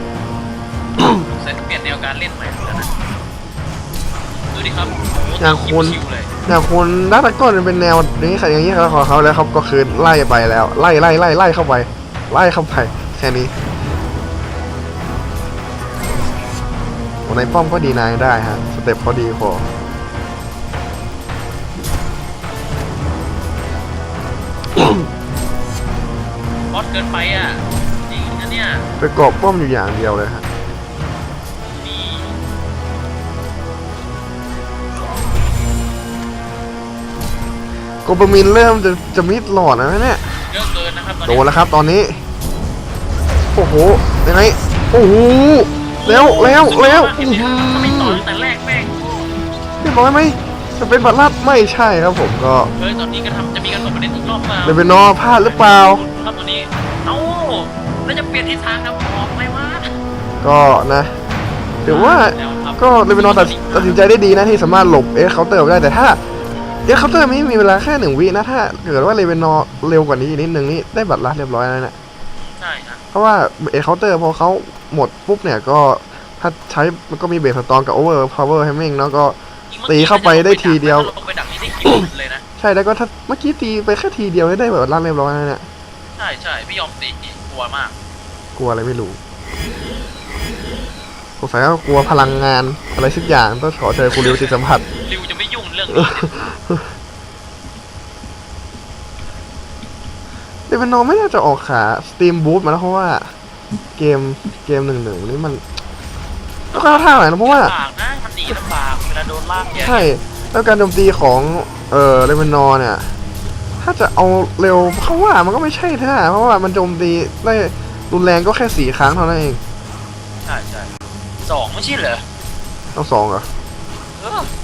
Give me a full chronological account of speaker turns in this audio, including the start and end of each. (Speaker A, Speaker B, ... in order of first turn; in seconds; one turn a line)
Speaker A: 1.2-2.9
Speaker A: 4.4-6.3
Speaker B: 5.4-13.5
Speaker B: 17.2-19.6
Speaker A: 26.7-28.9
Speaker B: 29.0-30.4
Speaker A: 31.6-32.4
Speaker B: 38.0-40.2
Speaker A: 40.5-41.7
Speaker B: 41.3-42.2
Speaker B: 43.5-48.2
Speaker A: 46.0-48.9
Speaker B: 49.8-52.7
Speaker A: 52.8-59.9
Speaker B: 54.6-56.0
Speaker B: 60.4-61.1
Speaker B: 61.8-66.2
Speaker A: 61.9-64.0
Speaker B: 66.9-72.0
Speaker A: 72.4-73.0
Speaker B: 73.1-79.4
Speaker A: 79.7-82.4
Speaker B: 79.9-81.1
Speaker B: 82.6-85.7
Speaker A: 86.2-87.9
Speaker B: 88.6-89.2
Speaker B: 91.4-94.8
Speaker A: 94.1-96.3
Speaker B: 95.9-96.8
Speaker B: 100.7-103.3
Speaker B: 104.0-105.6
Speaker A: 106.7-110.1
Speaker B: 106.7-107.7
Speaker B: 109.8-113.1
Speaker B: 113.8-119.6
Speaker A: 120.5-120.9
Speaker A: 121.4-122.2
Speaker B: 123.0-123.5
Speaker A: 124.2-124.5